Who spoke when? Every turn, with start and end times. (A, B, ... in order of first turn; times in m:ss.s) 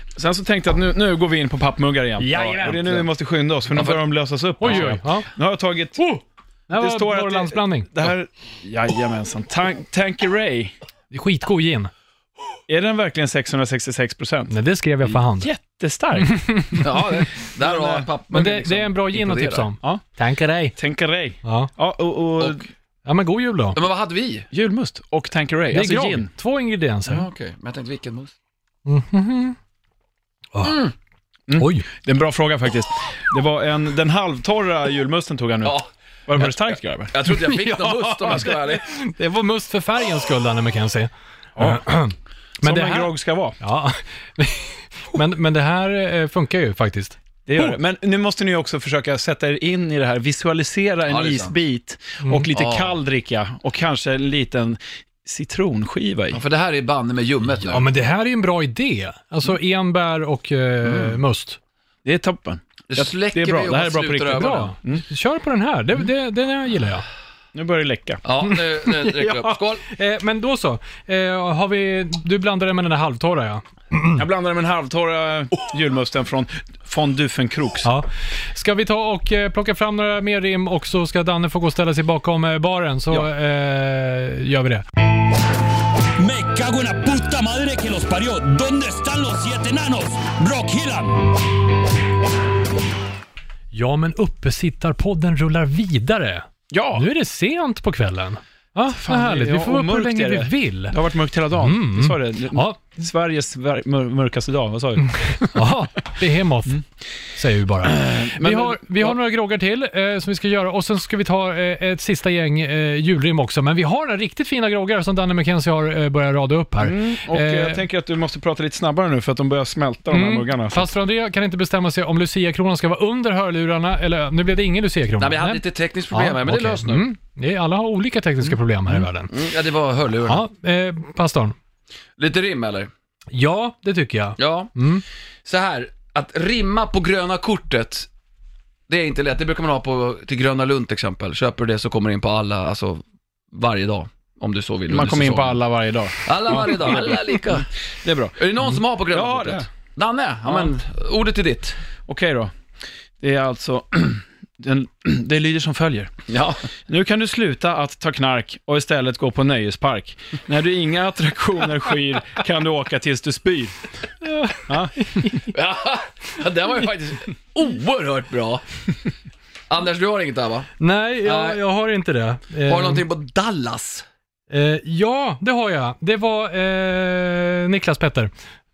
0:00.2-0:06.0 A
0:02.2-0:03.1 B
0:03.7-0:04.0 C
0:04.6-0:05.3 B
0:06.0-0:07.9 B
0:06.7-0:10.7 A
0:11.1-0:11.9 B
0:12.7-0:14.5 A
0:14.5-0:15.5 B
0:15.4-0:16.8 A
0:16.4-0:16.8 B
0:16.8-0:19.7 C
0:17.4-0:18.1 A
0:18.3-0:20.8 B
0:20.8-0:22.7 A
0:21.4-0:21.7 B
0:23.0-0:23.8 B
0:23.7-0:24.5 C
0:24.5-0:26.3 A
0:25.7-0:27.2 B
0:27.1-0:28.3 C
0:28.9-0:29.6 B
0:30.6-0:30.9 C
0:31.5-0:38.5 A
0:31.5-0:31.9 B
0:37.1-0:38.8 C
0:38.2-0:47.8 B
0:41.6-0:41.8 A
0:42.6-0:43.6 A
0:47.5-0:56.4 A
0:51.1-0:51.5 C
0:52.5-0:53.0 C
0:56.3-0:57.9 C
0:57.7-1:01.6 B
1:00.8-1:01.2 C
1:02.0-1:05.0 A
1:02.9-1:04.7 C
1:04.3-1:07.0 B
1:07.5-1:08.2 A
1:08.2-1:09.8 C
1:08.8-1:14.2 B
1:14.1-1:17.9 A
1:17.8-1:24.8 B
1:26.2-1:31.3 D
1:33.7-1:41.0 B
1:36.7-1:37.0 A
1:38.9-1:45.6 A
1:41.6-1:42.8 B
1:45.3-1:46.8 B
1:47.4-1:57.8 B
1:47.8-1:49.2 A
1:56.8-2:00.9 A
2:00.1-2:09.3 B
2:05.2-2:07.1 C
2:09.3-2:10.4 C
2:10.2-2:11.6 B
2:12.2-2:12.9 C
2:13.3-2:15.0 B
2:14.4-2:14.7 C
2:15.4-2:18.1 C
2:18.9-2:25.6 C
2:24.9-2:28.4 A
2:26.2-2:27.7 C
2:28.4-2:31.8 C
2:29.1-2:29.6 A
2:32.1-2:32.5 A
2:33.2-2:36.1 A
2:36.3-2:36.6 C
2:36.9-2:43.9 A
2:44.2-2:45.5 B
2:44.7-2:45.2 A
2:45.5-2:48.6 C
2:49.7-2:50.7 C
2:50.8-2:53.0 B
2:51.2-2:51.6 C
2:52.6-2:54.0 C
2:54.5-2:58.3 B